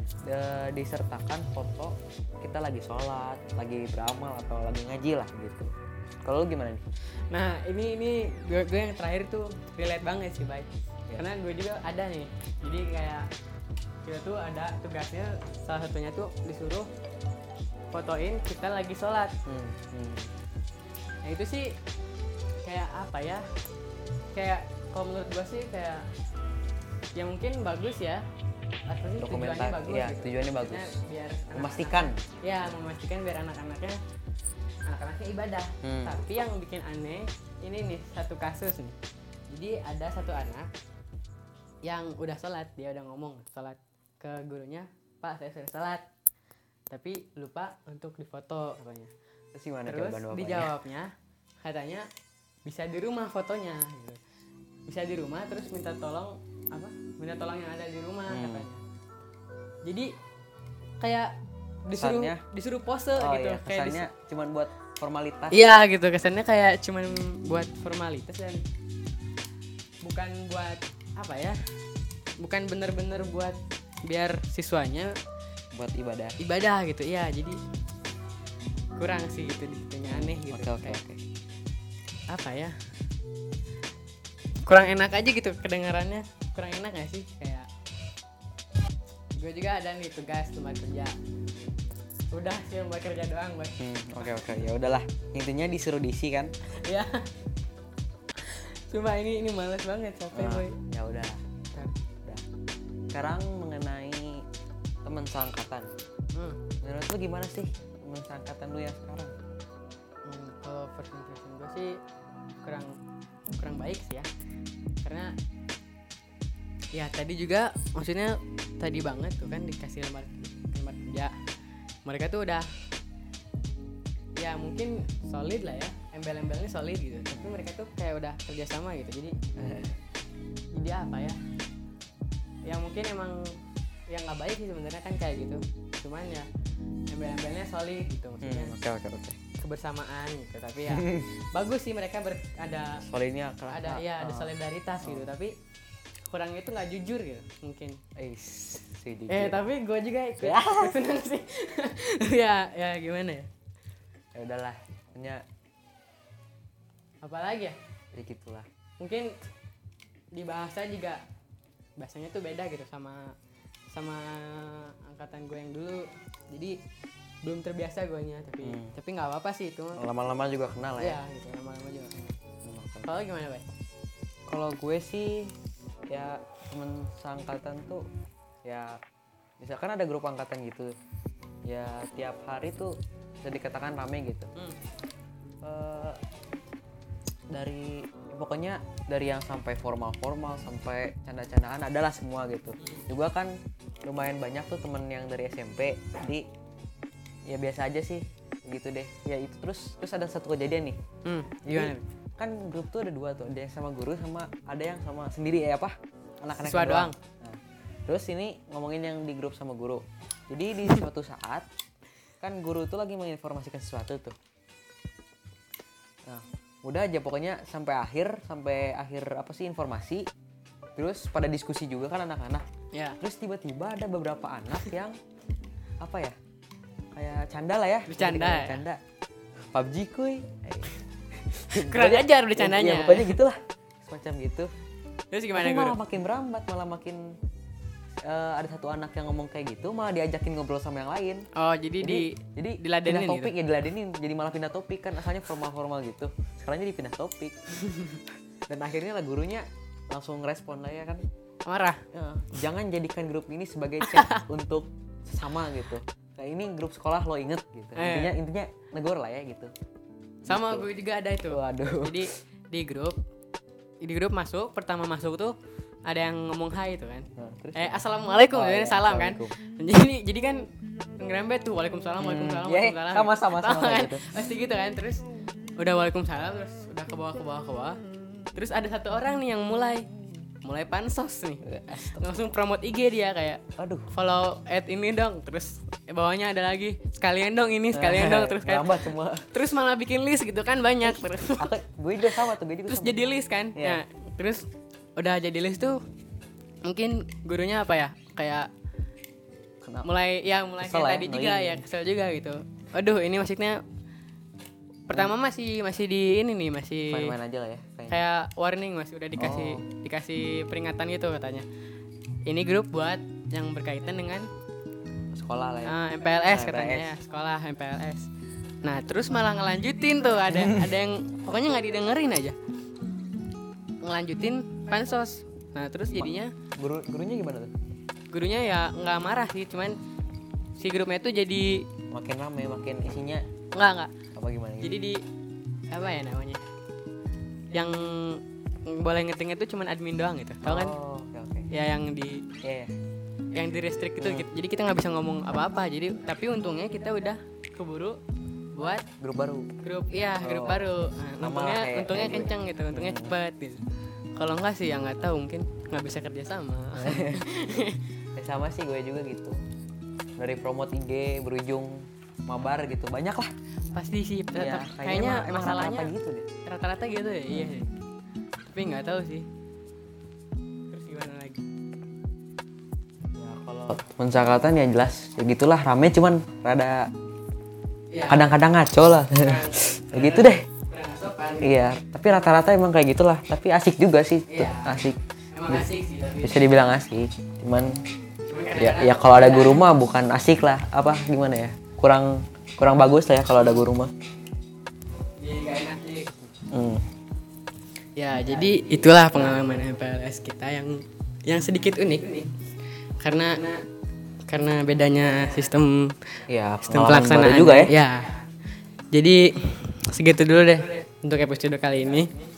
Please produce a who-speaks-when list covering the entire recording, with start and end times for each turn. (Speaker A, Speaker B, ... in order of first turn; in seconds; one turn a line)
Speaker A: 0.2-5.7
Speaker A: 6.2-6.8
Speaker B: 7.3-13.3
Speaker B: 14.0-16.9
Speaker B: 17.9-19.4
Speaker A: 19.4-20.3
Speaker B: 21.2-21.8
Speaker B: 22.6-23.4
Speaker B: 24.3-26.1
Speaker B: 27.1-28.2
Speaker B: 28.9-34.0
Speaker A: 29.2-31.0
Speaker A: 31.5-32.2
Speaker B: 34.9-39.0
Speaker A: 35.8-36.2
Speaker B: 39.5-40.7
Speaker B: 41.8-46.0
Speaker B: 46.9-49.1
Speaker A: 49.5-50.7
Speaker B: 49.9-51.1
Speaker B: 51.6-52.0
Speaker B: 52.6-54.2
Speaker B: 54.9-58.8
Speaker A: 58.3-58.7
Speaker B: 59.8-60.1
Speaker B: 61.0-61.3
Speaker B: 61.8-64.1
Speaker A: 62.0-62.4
Speaker A: 63.1-65.6
Speaker B: 65.5-68.6
Speaker B: 70.0-71.6
Speaker B: 72.4-75.1
Speaker A: 75.7-76.4
Speaker B: 76.4-77.6
Speaker B: 79.0-81.0
Speaker A: 80.0-81.2
Speaker B: 82.3-82.8
Speaker B: 84.6-87.7
Speaker B: 89.4-91.2
Speaker B: 92.3-94.5
Speaker A: 93.8-96.5
Speaker B: 96.7-97.3
Speaker B: 98.4-100.8
Speaker A: 100.3-101.4
Speaker A: 103.1-104.4
Speaker A: 105.0-105.9
Speaker B: 106.3-106.6
Speaker A: 106.8-109.3
Speaker B: 110.2-112.0
Speaker B: 112.6-113.0
Speaker B: 113.5-114.3
Speaker B: 115.0-115.3
Speaker B: 116.9-121.3
Speaker B: 122.0-122.7
Speaker B: 124.3-129.3
Speaker A: 127.3-127.6
Speaker A: 129.6-130.0
Speaker B: 130.7-131.4
Speaker B: 132.6-133.5
Speaker B: 134.1-136.5
Speaker B: 137.1-138.8
Speaker A: 138.4-139.4
Speaker B: 139.6-143.0
Speaker A: 140.9-141.3
Speaker A: 143.0-145.3
Speaker B: 143.7-145.5
Speaker B: 146.3-148.0
Speaker A: 148.2-149.6
Speaker B: 149.3-153.5
Speaker A: 150.4-151.0
Speaker A: 154.3-155.4
Speaker B: 157.2-157.8
Speaker A: 158.1-158.7
Speaker B: 159.0-159.3
Speaker B: 160.3-161.2
Speaker B: 162.0-163.3
Speaker B: 163.9-166.8
Speaker B: 167.4-170.1
Speaker A: 168.6-168.9
Speaker A: 169.9-171.2
Speaker B: 171.0-172.2
Speaker A: 172.6-173.1
Speaker B: 173.0-173.6
Speaker A: 174.5-175.5
Speaker A: 176.1-178.0
Speaker A: 178.6-179.0
Speaker A: 179.6-180.9
Speaker A: 181.7-184.5
Speaker A: 185.6-186.2
Speaker A: 187.5-196.4
Speaker B: 192.8-193.1
Speaker A: 197.5-201.0
Speaker B: 201.2-202.0
Speaker A: 201.6-211.7
Speaker B: 206.6-207.1
Speaker A: 212.4-214.3
Speaker A: 216.3-220.3
Speaker A: 221.0-222.6
Speaker B: 222.9-223.2
Speaker A: 223.2-225.2
Speaker A: 226.0-226.3
Speaker A: 227.1-229.0
Speaker B: 228.1-228.8
Speaker A: 229.7-230.9
Speaker A: 231.6-234.7
Speaker B: 231.7-233.3
Speaker B: 235.3-236.0
Speaker A: 235.5-237.4
Speaker A: 238.2-241.4
Speaker B: 241.5-243.5
Speaker A: 242.0-247.6
Speaker A: 248.7-251.2
Speaker B: 251.6-252.0
Speaker A: 252.1-259.7
Speaker B: 254.0-254.4
Speaker B: 257.9-258.3
Speaker A: 260.4-260.9
Speaker B: 260.5-263.2
Speaker A: 261.4-262.3
Speaker B: 264.0-265.5
Speaker B: 266.1-270.7
Speaker A: 267.4-269.6
Speaker B: 271.2-275.2
Speaker A: 272.2-274.3
Speaker B: 275.8-278.0
Speaker B: 278.5-280.1
Speaker B: 280.6-291.7
Speaker A: 281.6-282.4
Speaker A: 283.8-284.1
Speaker A: 287.9-289.5
Speaker A: 291.0-293.2
Speaker B: 292.3-296.0
Speaker A: 293.7-294.0
Speaker B: 296.8-298.7
Speaker A: 299.8-300.1
Speaker B: 300.0-303.8
Speaker A: 300.8-301.8
Speaker B: 305.1-307.4
Speaker A: 307.1-308.2
Speaker B: 308.1-311.6
Speaker A: 309.3-309.8
Speaker B: 312.4-314.5
Speaker A: 315.3-317.1
Speaker B: 315.8-318.3
Speaker B: 318.8-322.6
Speaker A: 320.5-320.8
Speaker B: 324.0-326.5
Speaker A: 326.1-327.7
Speaker B: 328.3-330.0
Speaker B: 330.8-331.9
Speaker A: 332.1-333.4
Speaker B: 333.7-334.1
Speaker A: 334.3-335.0
Speaker B: 334.8-335.2
Speaker B: 335.9-336.6
Speaker B: 337.7-340.9
Speaker A: 340.6-341.7
Speaker B: 341.7-342.4
Speaker A: 342.6-342.9
Speaker B: 343.5-348.2
Speaker A: 344.2-344.5
Speaker B: 348.7-349.0
Speaker A: 349.2-349.7
Speaker B: 349.8-353.8
Speaker A: 350.4-353.4
Speaker B: 354.4-358.0
Speaker A: 356.9-357.4
Speaker A: 358.4-359.6
Speaker A: 360.4-363.5
Speaker B: 363.9-366.1
Speaker A: 364.5-366.4
Speaker B: 366.6-367.9
Speaker A: 367.5-367.8
Speaker B: 368.7-369.4
Speaker B: 370.9-371.6
Speaker A: 373.4-377.1
Speaker B: 378.1-378.5
Speaker A: 378.3-380.6
Speaker B: 379.4-381.8
Speaker A: 381.6-385.9
Speaker B: 384.5-386.6
Speaker A: 386.4-388.0
Speaker B: 388.4-389.8
Speaker A: 388.8-394.1
Speaker B: 395.4-396.3
Speaker A: 396.7-397.0
Speaker B: 398.1-402.5
Speaker B: 403.2-403.8
Speaker B: 404.5-408.4
Speaker A: 406.5-407.9
Speaker B: 409.1-412.4